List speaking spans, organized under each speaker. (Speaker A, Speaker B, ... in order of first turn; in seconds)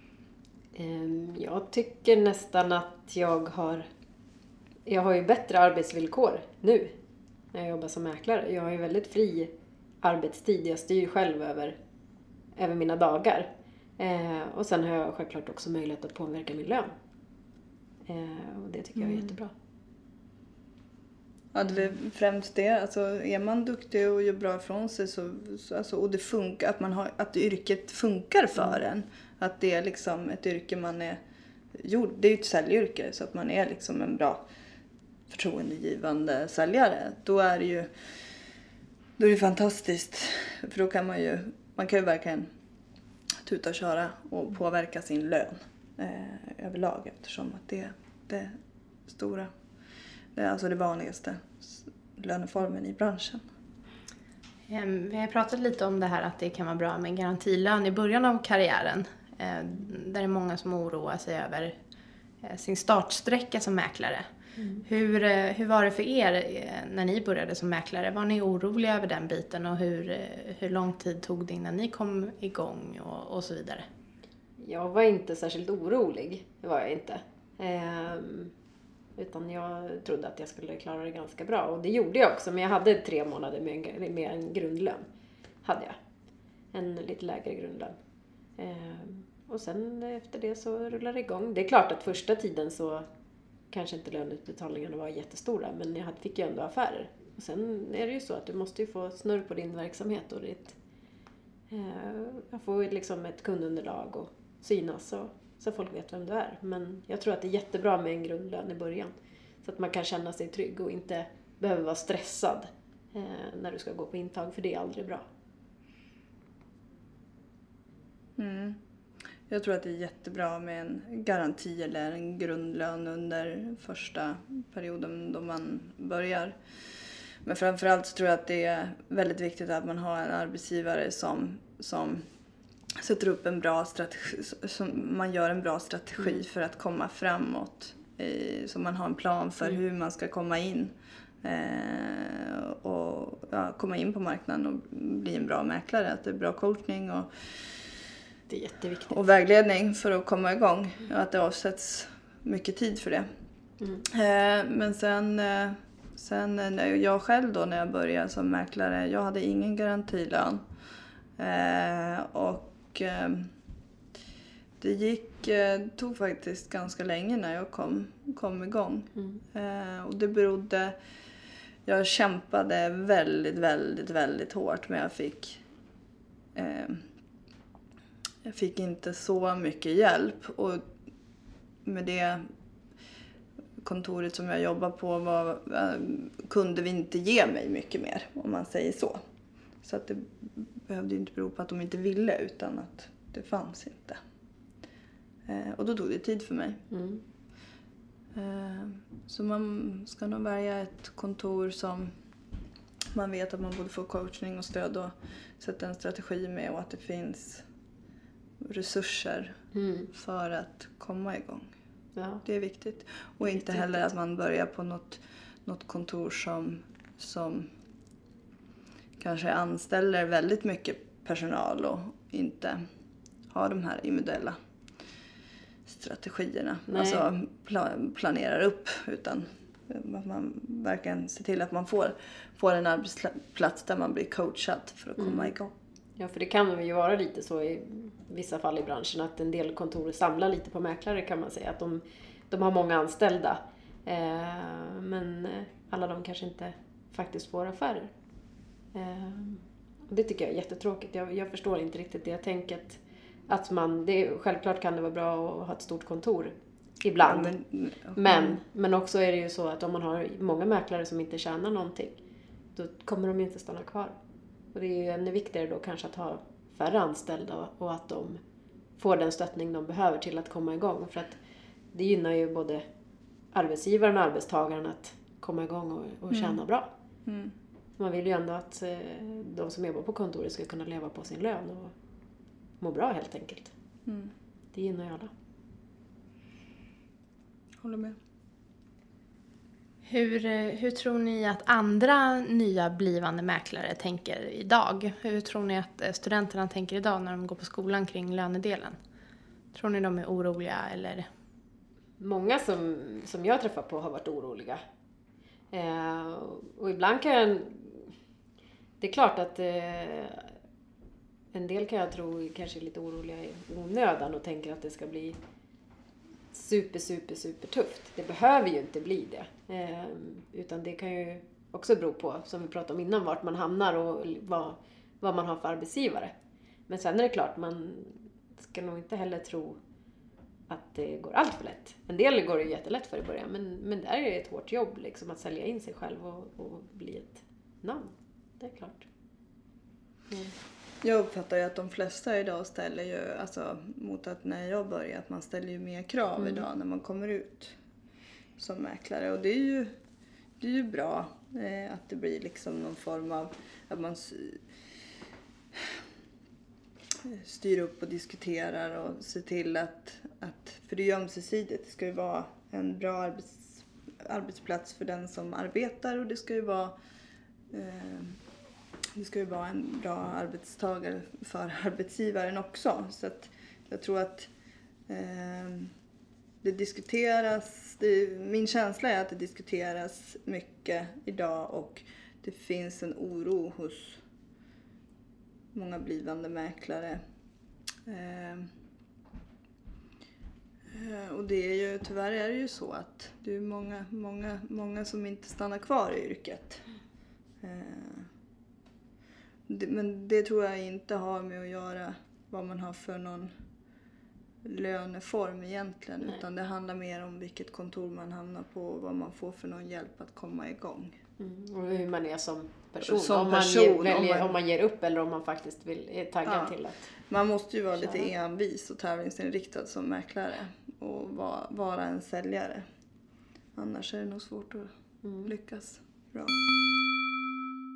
Speaker A: 0.8-3.9, 4.9-7.0, 7.5-11.8, 12.6-16.9, 18.1-19.5, 64.6-64.8, 74.6-78.5, 79.2-85.1, 85.6-86.0, 86.7-88.0, 88.6-93.1, 93.7-100.8, 101.7-115.3, 148.5-149.2, 196.9-197.2, 209.7-210.1, 212.2-212.4, 226.9-227.3, 235.2-235.5, 236.2-248.1, 248.9-257.6, 258.1-262.2, 262.8-264.1, 264.7-268.4, 269.0-271.4, 271.9-272.8, 273.5-276.9, 278.0-281.9, 282.8-283.7, 284.7-285.3, 302.2-304.8, 305.7-308.1, 309.0-310.5, 311.5-315.4, 316.5-326.4, 326.9-329.8, 330.7-339.1, 340.3-340.6, 346.4-346.6, 411.4-417.1, 425.2-425.5
Speaker B: 19.0-19.3, 21.5-31.2, 31.7-34.4, 35.3-37.9, 39.2-42.5, 43.4-48.6, 49.1-49.5, 50.4-53.4, 118.4-118.8, 119.5-126.6, 127.4-132.3, 133.0-147.3, 149.1-153.3, 154.1-160.6, 161.4-163.5, 164.8-171.0, 171.9-175.6, 176.6-177.0, 178.4-180.9, 181.8-182.5, 183.8-189.2, 189.8-194.2, 195.5-196.8, 198.3-202.1, 203.1-207.7, 208.6-209.6, 210.1-211.7, 212.4-217.7, 219.2-222.8, 223.5-224.6, 225.9-235.7, 257.2-258.6, 277.2-277.5, 284.1-284.3, 287.8-288.2, 341.0-347.8, 348.6-349.9, 350.6-354.6, 355.7-356.0, 357.2-366.9, 367.7-368.4, 369.1-374.5, 375.1-375.9, 376.6-384.2, 385.7-387.2, 388.1-388.7, 390.9-396.8, 397.6-398.3, 399.7-403.5, 404.6-411.2, 413.0-414.6, 416.4-416.8, 417.3-422.9, 423.8-424.9, 425.4-426.6
Speaker C: 54.7-61.8, 62.4-64.3, 64.8-73.9, 290.1-299.0, 299.7-301.3